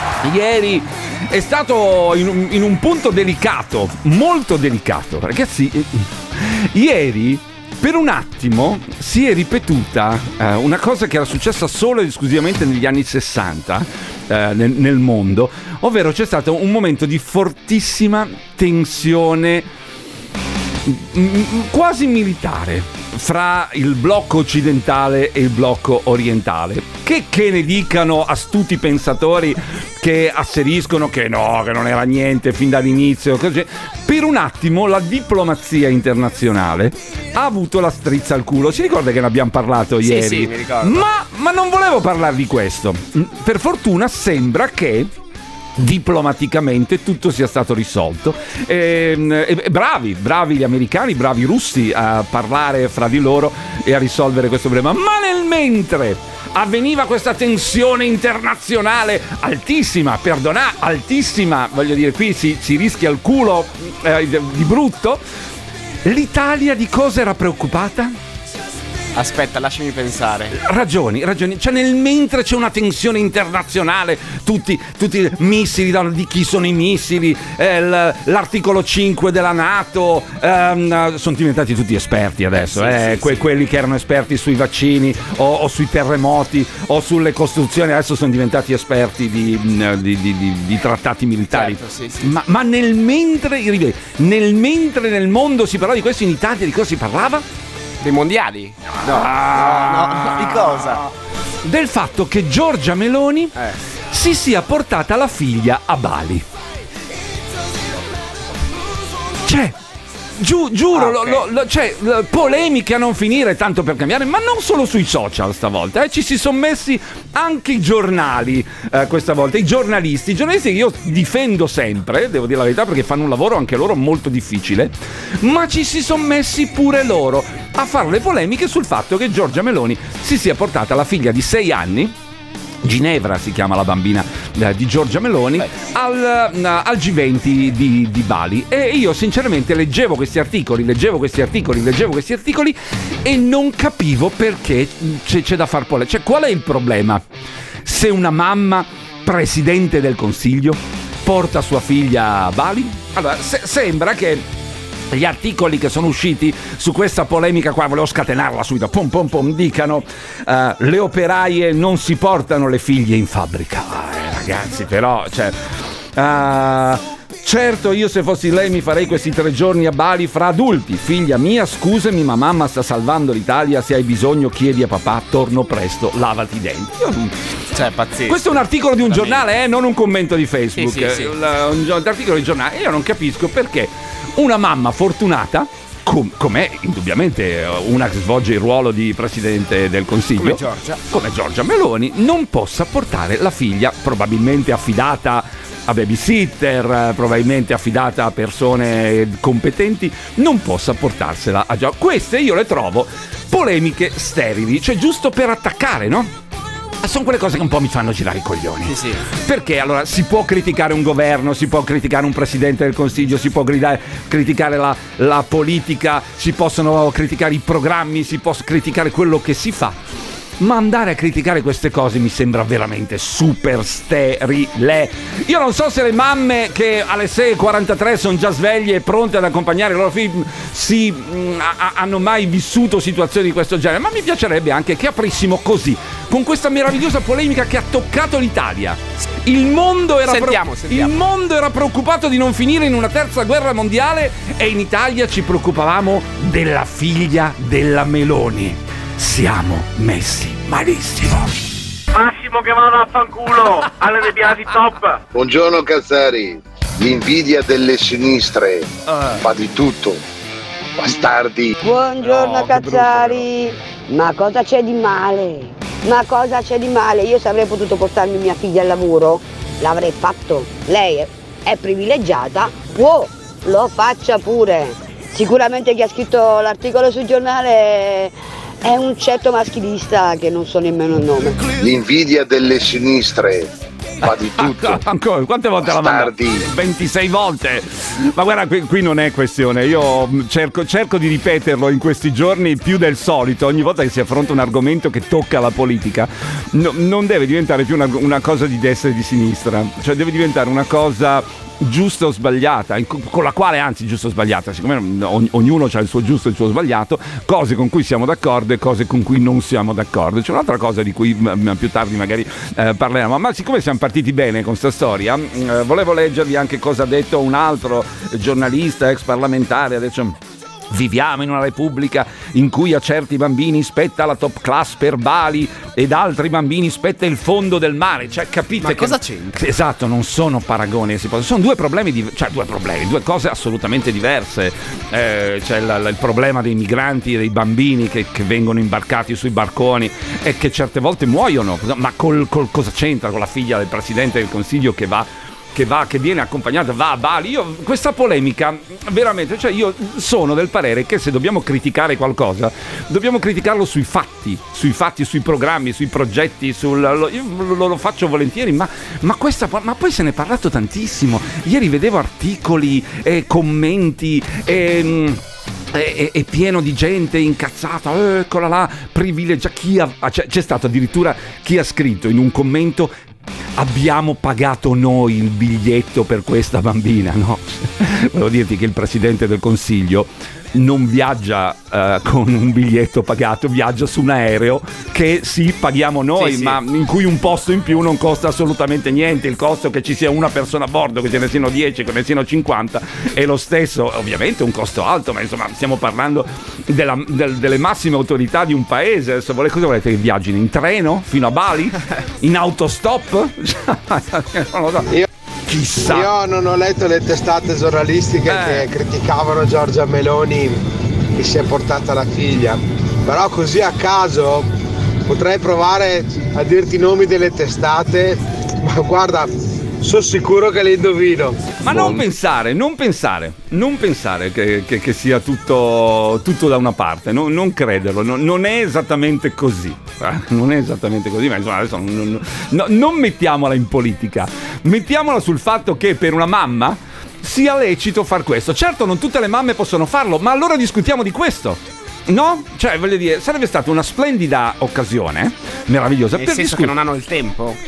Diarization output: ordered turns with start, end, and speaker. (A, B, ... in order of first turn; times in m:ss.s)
0:00.2-0:19.7 A
0:20.9-0:45.1 A
0:40.0-0:41.1 B
0:45.8-1:05.2 A
1:06.0-1:08.1 A
1:09.2-1:10.5 B
1:10.5-1:37.4 A
1:22.6-1:23.4 B
1:31.5-1:32.3 B
1:38.0-1:41.0 B
1:39.1-1:41.0 A
1:41.6-1:43.6 A
1:44.1-1:46.4 A
1:49.4-1:49.8 A
1:50.4-2:12.1 A
1:50.9-1:51.4 B
2:12.8-2:27.2 A
2:27.8-2:34.4 A
2:35.1-2:45.6 A
2:46.2-2:57.4 A
2:57.7-2:59.5 B
2:58.3-3:26.3 A
3:00.8-3:01.3 B
3:10.4-3:11.0 B
3:27.0-3:40.0 A
3:28.9-3:29.2 B
3:40.6-4:11.5 A
4:00.3-4:01.2 B
4:12.1-4:15.2 C
4:15.3-4:20.2 D
4:19.1-4:19.4 A
4:21.0-4:21.8 D
4:21.8-4:41.6 E
4:22.2-4:23.4 A
4:41.7-4:43.7 D
4:44.2-4:45.0 D
4:44.2-5:20.4 A
4:45.8-4:46.7 D
5:20.9-6:05.4 A
5:28.8-5:29.6 B
6:05.9-6:13.1 A
6:13.8-6:45.1 A
6:26.4-6:26.8 B
6:45.7-6:46.3 A
6:46.1-6:50.8 F
6:48.5-6:48.9 A
6:51.4-6:54.7 F
6:55.3-6:59.5 F
7:00.0-7:02.2 F
7:01.8-7:26.9 A
7:26.3-7:27.8 B